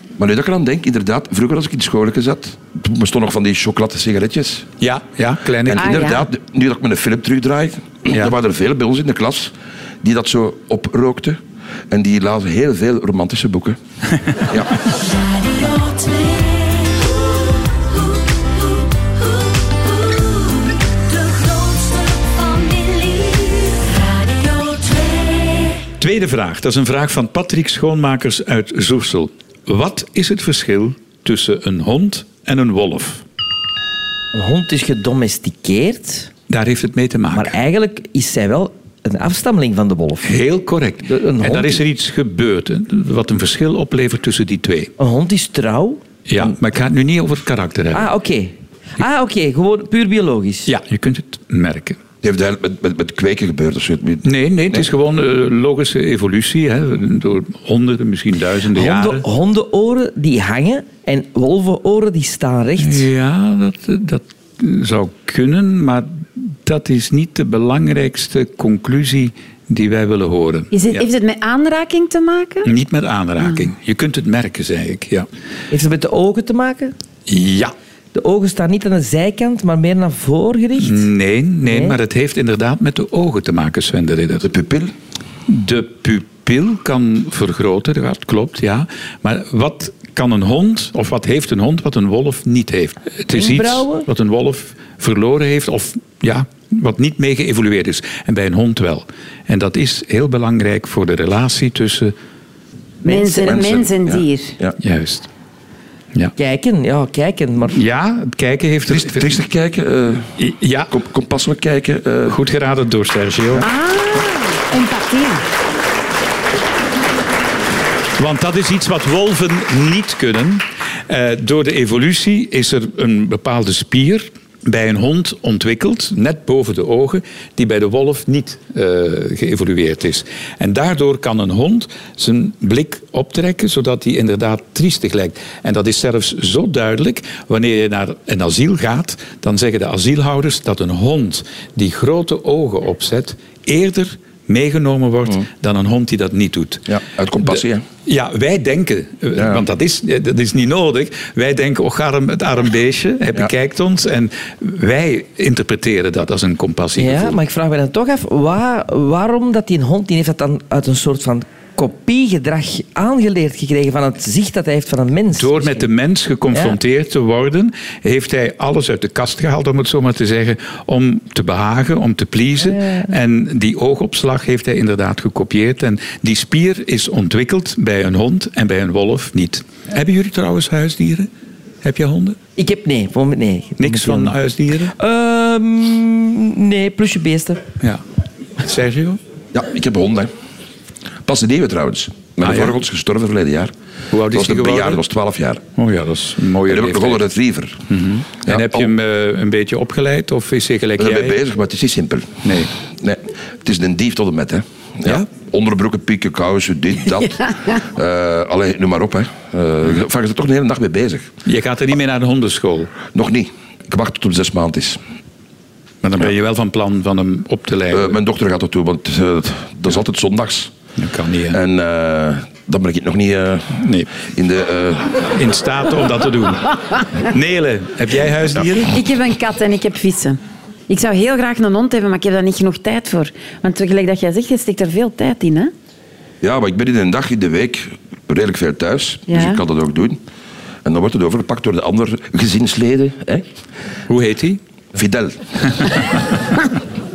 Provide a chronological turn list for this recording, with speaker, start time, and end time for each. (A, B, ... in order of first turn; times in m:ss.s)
0:00.2-0:04.7 A
0:04.8-0:06.0 B
0:05.6-0:13.8 A
0:05.8-0:06.2 C
0:14.5-0:14.7 A
0:14.9-0:25.8 D
0:26.0-0:33.2 B
0:34.3-0:36.3 E
0:36.5-0:37.5 B
0:37.3-0:40.4 E
0:40.2-0:44.9 B
0:41.1-0:41.8 E
0:45.0-0:46.0 E
0:46.3-0:48.1 B
0:47.9-0:50.7 E
0:50.6-0:52.0 B
0:52.2-0:54.8 A
0:54.2-0:59.2 B
0:58.7-1:03.1 E
1:02.8-1:11.0 B
1:10.7-1:12.7 C
1:12.6-1:15.3 B
1:15.7-1:16.9 E
1:17.3-1:17.7 B
1:18.1-1:21.1 E
1:20.8-1:24.5 B
1:21.6-1:22.0 E
1:24.4-1:24.9 A
1:25.5-1:42.1 B
1:33.3-1:34.0 E
1:43.0-1:44.6 C
1:43.0-1:43.3 E
1:43.3-1:44.8 A
1:44.8-1:45.3 B
1:46.4-1:47.8 E
1:47.7-1:49.3 B
1:48.9-1:50.3 A
1:50.4-1:50.9 B
1:50.9-1:52.4 A
1:52.3-1:53.6 B
1:53.6-1:55.4 C
1:58.2-2:26.9 B
2:26.9-2:27.8 A
2:27.4-2:37.4 B
2:29.4-2:29.6 A
2:37.0-2:45.9 E
2:45.3-3:01.3 B
2:46.5-2:46.8 E
2:52.6-2:53.0 E
3:01.8-3:02.4 B
3:02.6-3:04.4 E
3:03.8-3:04.9 B
3:04.9-3:07.6 E
3:08.6-3:09.2 B
3:09.5-3:10.3 A
3:11.2-3:13.7 A
3:12.4-3:12.7 B
3:14.1-3:15.0 B
3:14.3-3:15.6 A
3:15.8-3:17.2 B
3:16.7-3:17.8 A
3:17.9-3:21.4 B
3:18.4-3:18.9 A
3:21.0-3:22.4 A
3:22.4-3:22.7 B
3:23.0-3:31.3 A
3:31.4-3:32.9 B
3:33.1-3:35.0 A
3:36.0-3:38.2 B
3:37.9-3:40.7 A
3:41.0-3:41.6 B
3:41.5-3:45.2 A
3:43.7-3:44.1 B
3:45.3-3:49.0 B
3:48.9-3:55.7 C
3:56.4-4:00.2 A
3:59.3-3:59.6 C
4:00.8-4:03.4 A
4:04.1-4:04.6 B
4:04.9-4:05.4 A